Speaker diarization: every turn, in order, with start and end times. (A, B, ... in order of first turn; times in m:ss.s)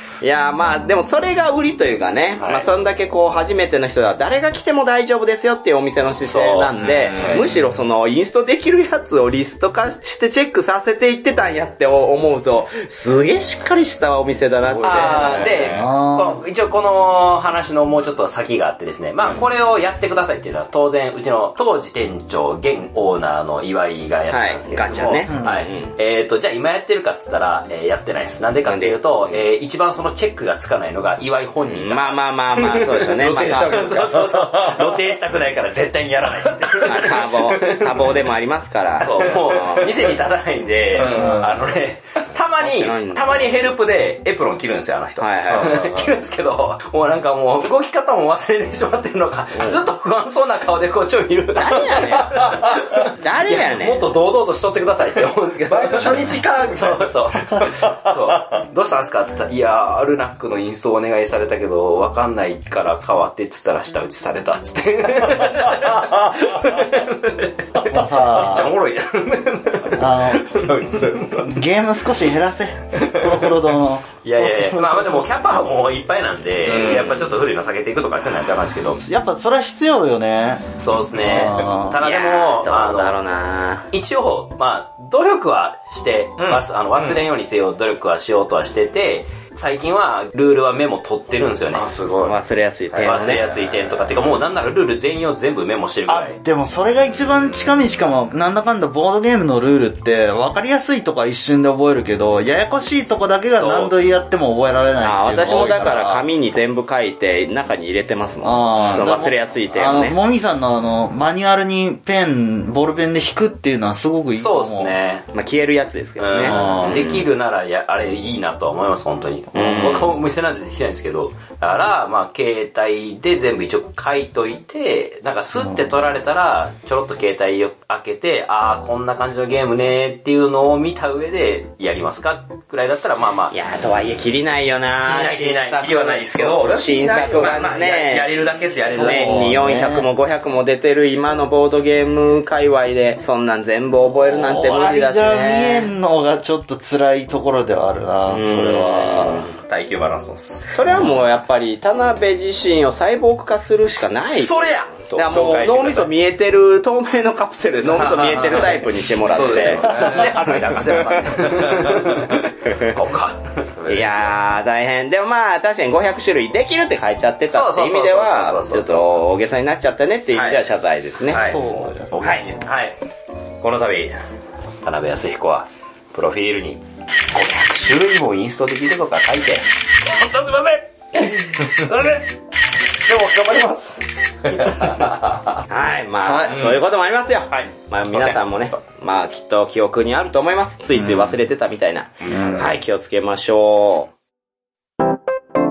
0:00.2-0:15.6 A
0:02.4-0:02.7 B
0:06.2-0:07.5 B
0:06.7-0:07.6 C
0:14.5-0:15.9 C
0:14.8-0:38.2 B
0:15.6-0:16.4 D
0:24.3-0:25.9 A
0:25.3-0:25.6 D
0:28.6-0:29.0 A
0:31.7-0:33.8 A
0:33.2-0:35.0 C
0:36.8-0:39.9 A
0:39.0-1:11.6 B
0:40.9-0:41.5 C
0:42.6-0:43.4 A
0:45.2-0:45.8 A
0:45.5-0:46.1 C
0:51.6-0:52.6 A
0:52.2-0:52.9 C
0:53.2-0:54.0 A
0:55.7-0:58.4 C
1:07.9-1:08.7 D
1:10.0-1:10.7 D
1:11.4-1:14.0 D
1:13.1-1:13.5 B
1:14.2-1:19.0 B
1:16.6-1:17.3 C
1:19.0-1:22.0 D
1:20.8-1:23.2 B
1:22.0-1:23.9 A
1:23.9-1:31.9 B
1:26.4-1:27.2 C
1:31.7-1:32.4 C
1:32.2-1:33.4 A
1:32.9-1:34.3 C
1:33.0-1:36.4 B
1:36.1-1:46.2 D
1:43.6-1:43.9 B
1:45.0-1:50.2 A
1:48.4-1:54.9 D
1:54.4-1:55.3 B
1:55.3-1:57.2 A
1:56.2-2:13.5 B
1:56.4-1:57.2 D
1:59.5-2:00.1 A
2:13.5-2:25.9 A
2:15.0-2:19.5 B
2:18.9-2:20.1 D
2:24.2-2:29.4 D
2:28.3-2:29.5 A
2:28.7-2:30.7 B
2:30.7-2:41.8 A
2:34.4-2:36.1 B
2:37.9-2:38.8 B
2:38.2-2:38.6 C
2:39.2-2:42.4 C
2:39.3-2:43.6 B
2:42.4-2:43.0 A
2:43.7-2:44.3 C
2:43.9-2:51.4 A
2:47.5-2:49.2 B
2:50.3-2:50.6 B
2:51.2-2:53.0 B
2:51.3-2:52.6 D
2:52.2-2:52.5 A
2:53.6-2:54.2 B
2:54.8-3:02.4 B
3:02.9-3:05.1 B
3:04.6-3:05.2 C
3:05.7-3:14.1 A
3:06.2-3:06.6 D
3:06.5-3:06.8 C
3:07.5-3:08.4 B
3:11.0-3:11.3 D
3:12.2-3:12.6 B
3:12.3-3:12.7 D